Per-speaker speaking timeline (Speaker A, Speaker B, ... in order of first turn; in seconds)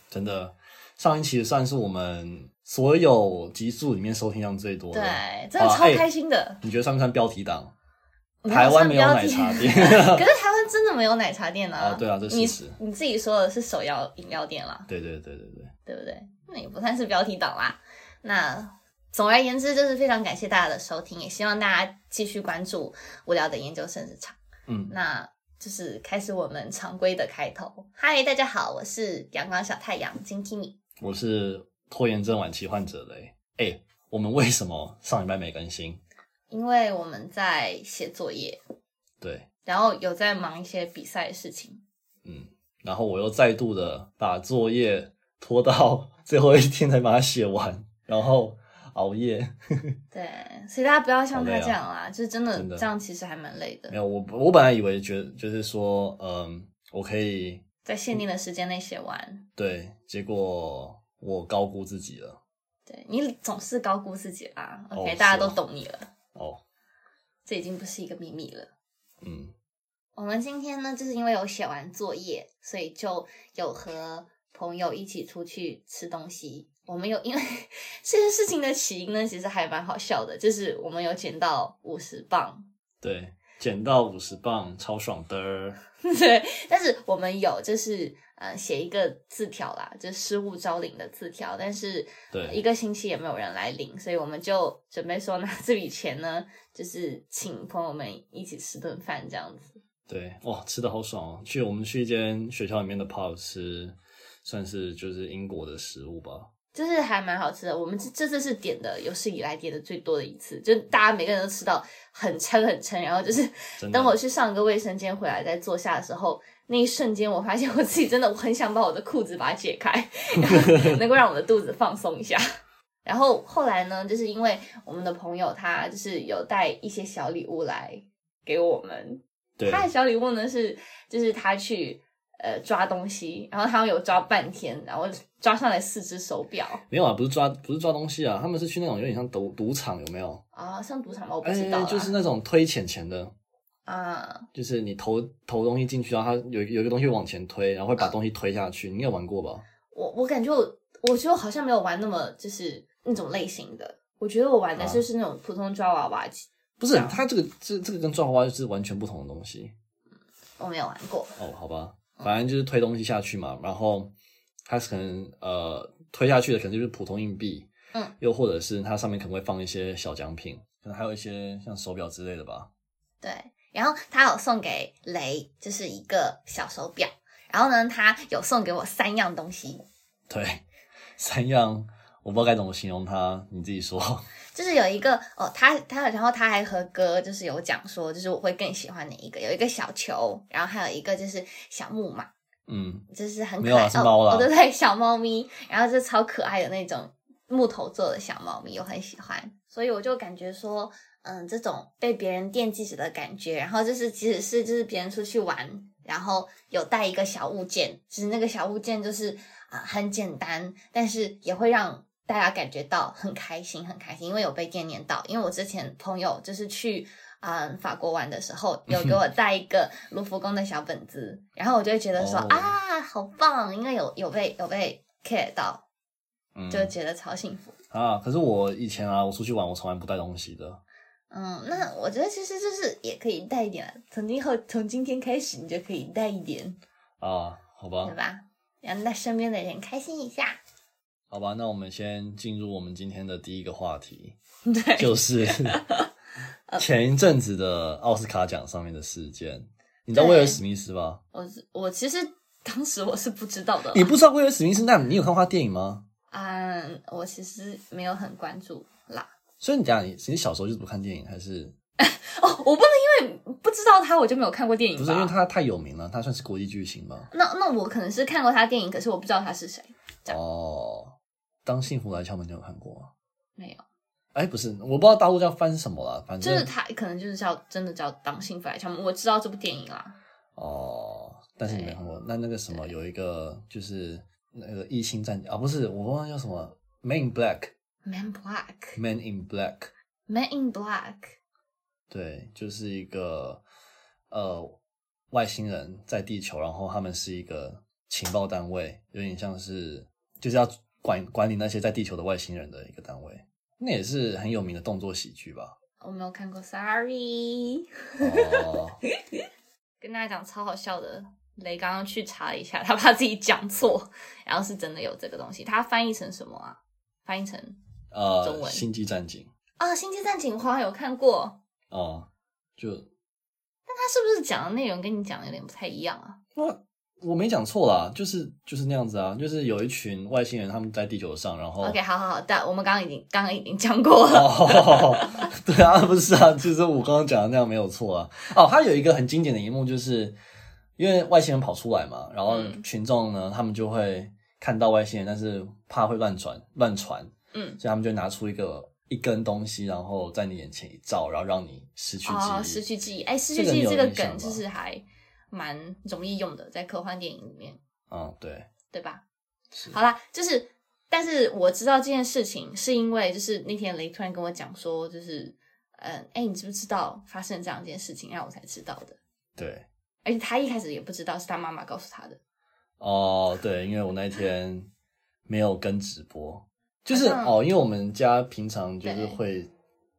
Speaker A: 0.1-6.0, 6.6-7.7, 8.5-10.2, 11.8-12.8, 14.9-15.7, 24.7-24.9, 31.0-36.0, 39.2-39.5, 42.2-50.0, 51.3-51.8, 52.5-52.9, 53.9-58.2, 59.6-62.4, 64.9-65.6, 66.3-66.6, 69.2-69.5, 83.0-85.8, 92.3-92.6, 100.1-106.5, 113.8-114.2, 120.6-120.9, 129.6-129.9, 136.9-140.4, 141.4-143.3, 144.5-149.6, 154.8-155.0, 156.8-159.7, 161.4-164.1, 164.7-167.7, 168.2-172.7, 180.3-180.6, 181.2-184.3, 192.7-193.1, 193.6-194.5, 222.2-222.7, 226.5-226.9, 227.9-230.8, 237.2-238.1, 241.3-244.4, 245.0-245.8, 246.8-251.2, 253.9-256.0, 259.6-261.7, 265.0-267.3, 270.3-273.1, 274.3-276.7, 280.6-287.7, 288.9-289.9, 292.1-293.6, 294.3-294.8, 295.3-305.8, 308.2-309.0, 318.1-319.5, 321.9-323.1, 326.6-332.0, 334.3-340.4, 341.0-352.8, 353.5-354.6, 358.1-358.7, 369.6-369.9, 373.0-374.9, 375.4-379.7
Speaker B: 4.9-6.6, 8.4-14.9, 15.8-24.4, 24.9-30.8, 36.5-38.6, 39.6-41.8, 50.1-54.0, 57.8-59.5, 62.9-66.1, 67.5-68.7, 70.2-82.7, 86.0-99.8, 106.7-122.4, 123.0-136.8, 140.5-142.1, 143.9-144.5, 149.9-157.2, 160.6-161.4, 173.2-179.8, 184.5-192.3, 193.1-225.8, 226.7-227.8, 231.3-236.8, 238.0-240.6, 244.6-246.1, 250.1-250.6, 251.3-254.1, 256.3-259.3, 262.0-265.3, 267.3-270.4, 273.6-273.8, 276.4-280.2, 281.6-282.0, 288.0-289.0, 290.3-291.4, 306.0-308.8, 310.0-317.8, 318.4-318.9, 319.8-321.6, 323.9-326.4, 331.8-335.5, 342.5-342.8, 347.5-347.8, 352.2-357.8, 358.9-359.2, 359.9-369.2, 370.2-372.4, 377.1-377.6, 379.0-379.4